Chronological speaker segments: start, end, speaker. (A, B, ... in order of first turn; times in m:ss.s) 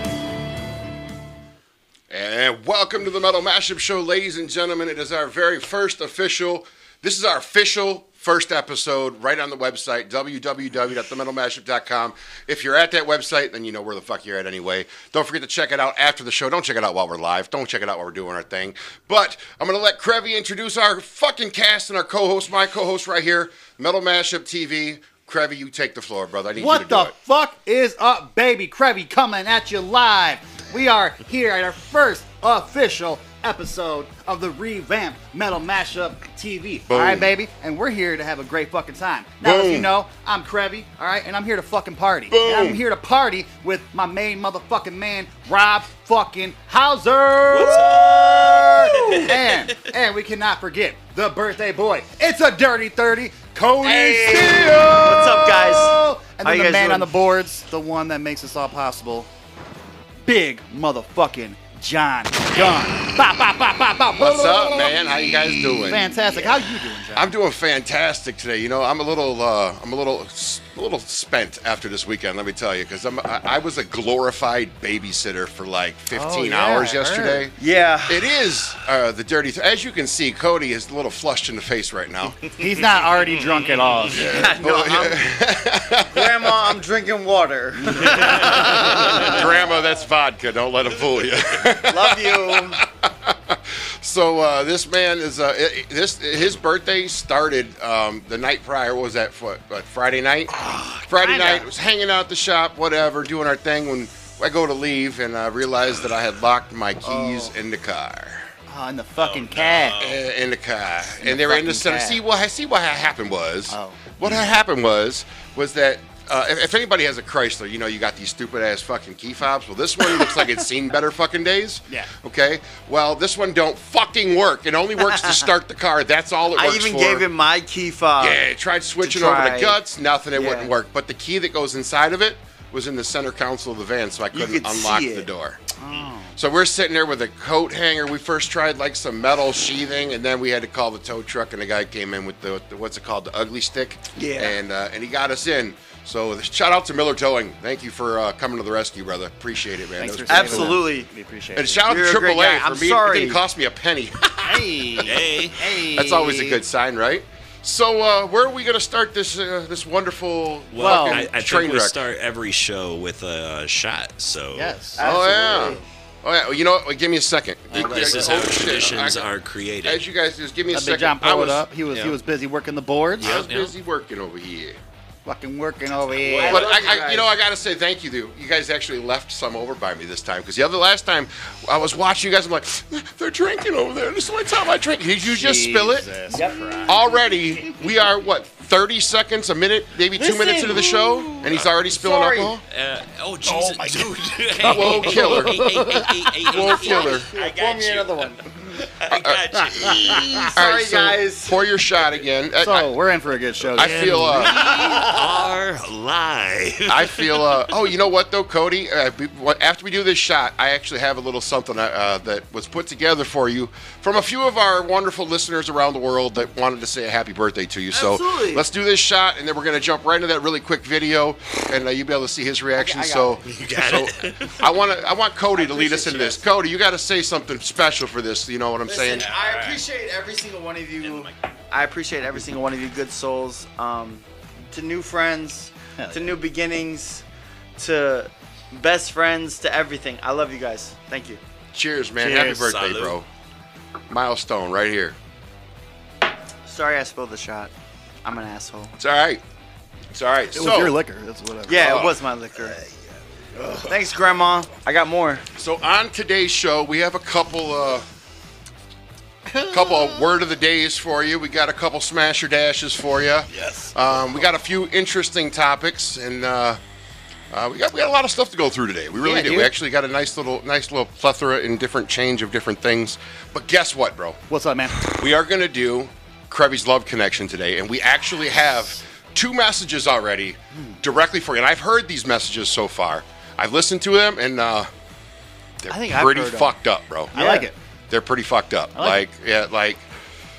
0:02.1-0:27.1 A
0:26.6-0:59.3 B
0:36.9-0:37.3 A
0:39.4-0:39.9 A
0:42.3-0:42.8 A
0:47.5-0:49.7 C
0:48.2-0:48.6 D
0:53.8-0:57.1 D
1:00.2-1:07.4 B
1:04.2-1:06.6 A
1:07.1-1:22.4 A
1:16.1-1:17.5 B
1:17.6-1:18.3 D
1:22.6-1:24.5 B
1:23.1-1:24.0 C
1:24.1-1:26.7 A
1:24.1-1:25.3 D
1:26.1-1:29.5 D
1:28.0-1:48.5 A
1:31.9-1:32.8 D
1:40.6-1:41.7 B
1:47.0-1:47.5 B
1:48.7-1:50.0 B
1:49.2-1:50.2 C
1:50.0-2:07.3 A
1:51.2-1:52.2 B
1:53.7-1:54.0 B
2:06.5-2:08.4 D
2:08.2-2:15.6 A
2:09.0-2:09.8 D
2:10.3-2:10.7 D
2:14.3-2:15.3 D
2:15.8-2:16.4 B
2:16.4-2:30.8 A
2:24.2-2:24.6 D
2:30.0-2:31.9 B
2:30.3-2:31.1 D
2:31.6-2:34.6 A
2:31.9-2:33.4 D
2:34.4-2:36.6 B
2:35.0-2:35.6 C
2:35.7-2:42.0 A
2:40.7-2:44.8 C
2:40.8-2:41.2 B
2:44.5-2:45.0 B
2:45.0-2:45.8 D
2:45.0-2:49.3 A
2:47.7-2:48.6 B
2:47.7-2:50.0 C
2:49.8-2:51.7 A
2:50.7-2:53.3 B
2:51.9-2:52.2 C
2:53.2-2:53.7 C
2:53.2-2:54.8 A
2:55.3-2:56.7 B
2:56.2-2:56.8 C
2:56.4-2:57.3 D
2:56.4-3:06.1 A
3:05.2-3:07.0 B
3:06.3-3:07.0 D
3:06.8-3:12.6 A
3:10.1-3:12.6 D
3:12.7-3:20.5 C
3:13.5-3:15.9 A
3:13.6-3:14.0 B
3:14.6-3:16.1 B
3:16.5-3:17.3 A
3:16.7-3:18.4 D
3:19.1-3:22.9 A
3:20.4-3:21.6 D
3:22.6-3:24.6 B
3:23.7-3:24.7 A
3:23.8-3:27.8 C
3:24.8-3:25.4 D
3:26.9-3:49.3 A
3:37.9-3:38.6 D
3:42.8-3:43.4 D
3:43.5-3:44.7 C
3:45.5-3:46.4 D
3:48.8-3:57.2 D
3:49.1-3:49.8 C
3:51.0-3:51.4 C
3:56.0-3:56.4 B
3:57.8-4:01.4 D
4:01.7-4:03.3 A
4:02.2-4:02.7 B
4:02.5-4:03.2 C
4:04.1-4:05.2 A
4:06.7-4:07.7 D
4:08.2-4:09.0 D
4:09.0-4:09.4 A
4:10.1-4:11.0 A
4:10.5-4:12.1 B
4:11.7-4:12.8 D
4:11.7-4:12.2 A
4:13.8-4:15.4 D
4:15.6-4:18.1 A
4:19.7-4:26.8 A
4:27.5-4:34.4 A
4:29.2-4:29.7 B
4:34.5-4:35.2 B
4:35.1-4:44.9 A
4:45.8-4:50.1 A
4:45.9-4:46.8 D
4:47.3-4:47.7 D
4:47.3-4:47.8 B
4:49.0-4:49.2 B